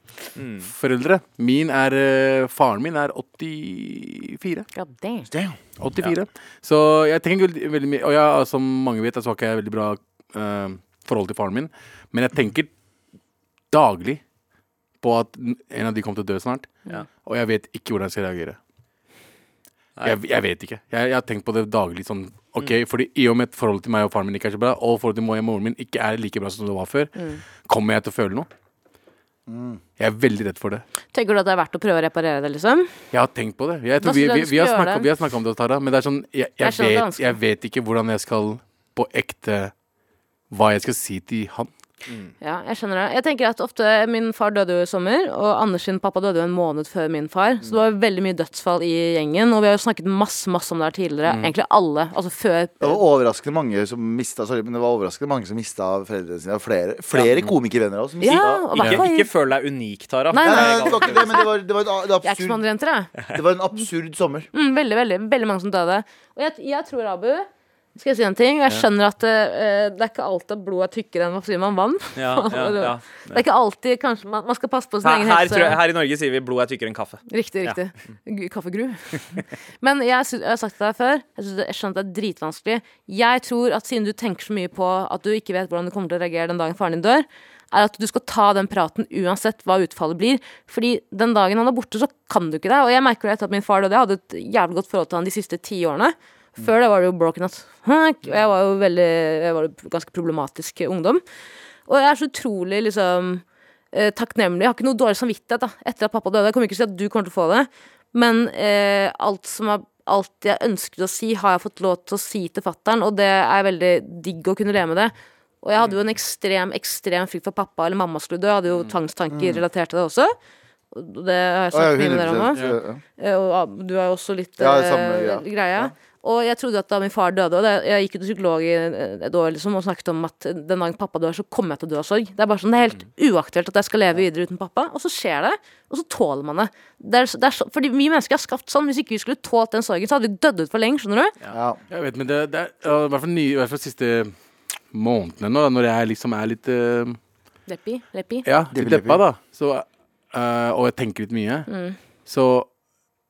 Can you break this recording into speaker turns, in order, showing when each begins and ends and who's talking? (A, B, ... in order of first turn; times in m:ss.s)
0:00.4-0:00.7 A
0:00.6-0:04.6 B
0:04.7-0:05.3 C
0:05.3-0:05.6 D
0:05.8-0:12.7 B
0:13.7-0:14.2 B
0:15.0-0:18.6 B
0:20.0-0:27.1 B
0:27.2-0:27.4 C
0:27.6-0:28.5 B
0:29.5-0:29.8 D
0:30.0-0:30.8 B
0:31.1-0:32.9 C
0:33.1-0:39.7 B
0:34.0-0:35.1 C
0:36.6-0:37.4 C
0:40.5-0:41.7 B
0:42.4-0:53.0 C
0:51.2-0:51.5 B
0:52.8-0:58.8 D
0:57.1-0:57.4 A
0:58.2-0:59.3 C
0:58.3-1:01.4 A
1:00.3-1:01.5 C
1:00.4-1:02.6 D
1:02.2-1:03.1 C
1:03.3-1:04.5 D
1:04.5-1:15.8 C
1:12.2-1:13.4 A
1:15.0-1:17.8 A
1:17.3-1:41.2 C
1:41.9-2:00.3 C
1:59.3-1:59.6 D
2:00.9-2:02.6 C
2:01.7-2:03.0 D
2:03.2-2:21.3 C
2:04.6-2:05.9 D
2:21.5-2:21.8 D
2:21.9-2:24.3 B
2:24.9-2:27.2 B
2:27.7-2:28.4 C
2:28.4-2:31.7 B
2:28.7-2:29.2 D
2:31.7-2:32.0 C
2:32.2-2:32.7 B